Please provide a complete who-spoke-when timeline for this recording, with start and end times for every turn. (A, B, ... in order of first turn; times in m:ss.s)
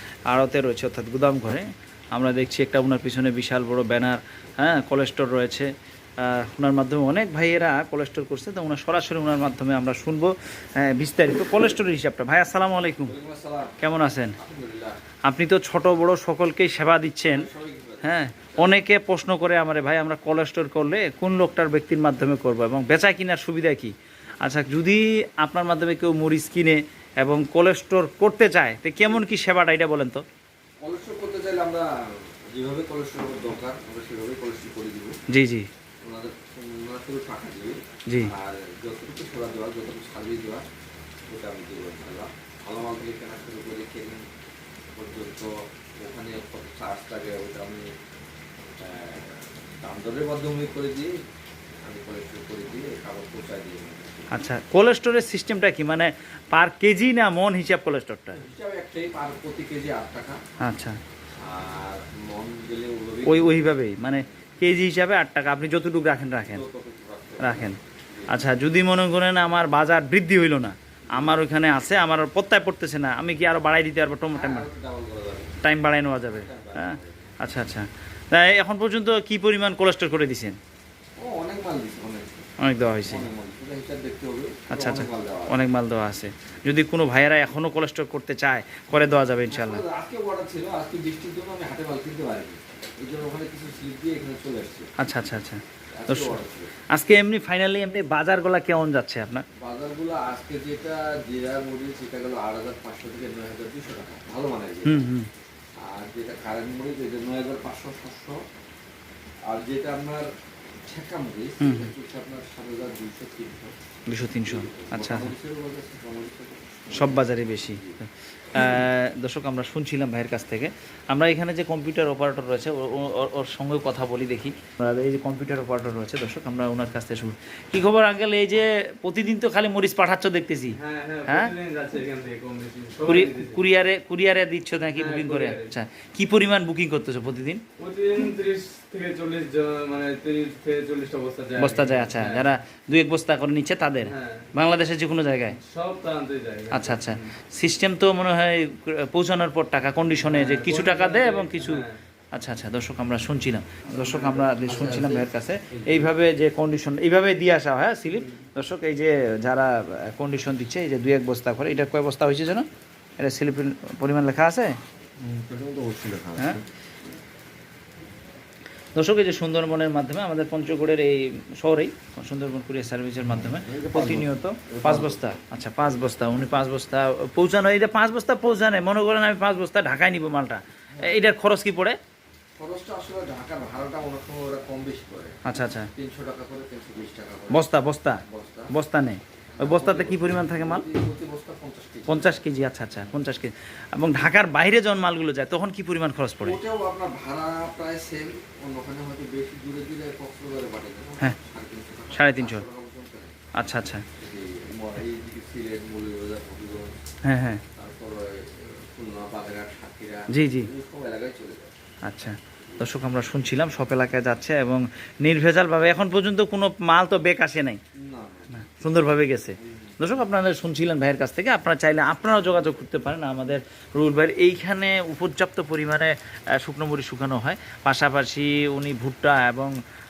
0:00.3-0:05.7 A
0:06.2-0:13.2 A
0:13.0-0:13.8 B
0:13.8-0:14.4 A
0:14.4-0:15.0 B
0:15.2-0:17.5 A
0:17.3-0:18.8 B
0:18.0-0:30.2 A
0:30.8-0:35.2 B
0:35.3-0:35.7 A
0:36.0-0:40.6 B
0:38.1-0:38.3 A
0:41.3-0:44.2 B
0:45.0-0:47.8 B
0:48.8-0:51.1 B
0:51.8-0:54.5 B
0:54.3-0:58.4 A
0:58.3-1:00.4 B
1:00.6-1:01.0 A
1:01.4-1:03.7 B
1:03.2-1:06.6 A
1:06.5-1:08.3 B
1:07.4-1:14.6 A
1:11.1-1:11.4 B
1:14.3-1:15.6 B
1:15.6-1:20.6 A
1:16.2-1:17.4 B
1:21.2-1:22.5 B
1:22.6-1:23.3 A
1:23.0-1:25.6 B
1:24.7-1:29.8 A
1:29.5-1:34.9 B
1:35.0-1:36.4 A
1:35.9-1:36.7 B
1:36.9-1:39.4 A
1:39.6-1:45.1 B
1:44.8-1:45.3 A
1:45.8-1:48.4 B
1:49.5-1:50.3 B
1:50.8-1:53.7 B
1:51.6-1:51.9 A
1:54.1-1:55.3 A
1:54.4-1:58.0 B
1:56.9-1:57.8 A
1:58.5-2:11.5 A
1:58.5-1:58.8 B
2:10.8-2:13.6 C
2:13.0-2:17.6 A
2:14.9-2:15.7 C
2:17.8-2:22.5 C
2:21.5-2:25.6 A
2:24.0-2:24.5 C
2:25.6-2:27.3 C
2:26.7-2:42.7 A
2:30.2-2:32.0 C
2:34.0-2:34.6 C
2:34.6-2:36.1 B
2:43.2-2:44.8 A
2:45.2-2:46.6 B
2:48.9-3:02.0 A
2:53.3-2:55.2 B
3:01.0-3:01.2 B
3:02.6-3:05.4 B
3:05.4-3:05.9 A
3:05.9-3:07.7 B
3:07.5-3:10.8 A
3:08.2-3:08.7 B
3:09.5-3:12.4 B
3:12.1-3:16.6 A
3:16.4-3:23.4 B
3:22.1-3:22.6 A
3:23.6-3:24.0 A
3:24.2-3:26.9 B
3:27.2-3:27.6 A
3:27.7-3:31.8 B
3:30.3-3:30.7 A
3:32.0-3:37.8 A
3:32.6-3:32.9 B
3:37.9-3:38.6 B
3:38.6-3:49.7 A
3:39.6-3:39.9 B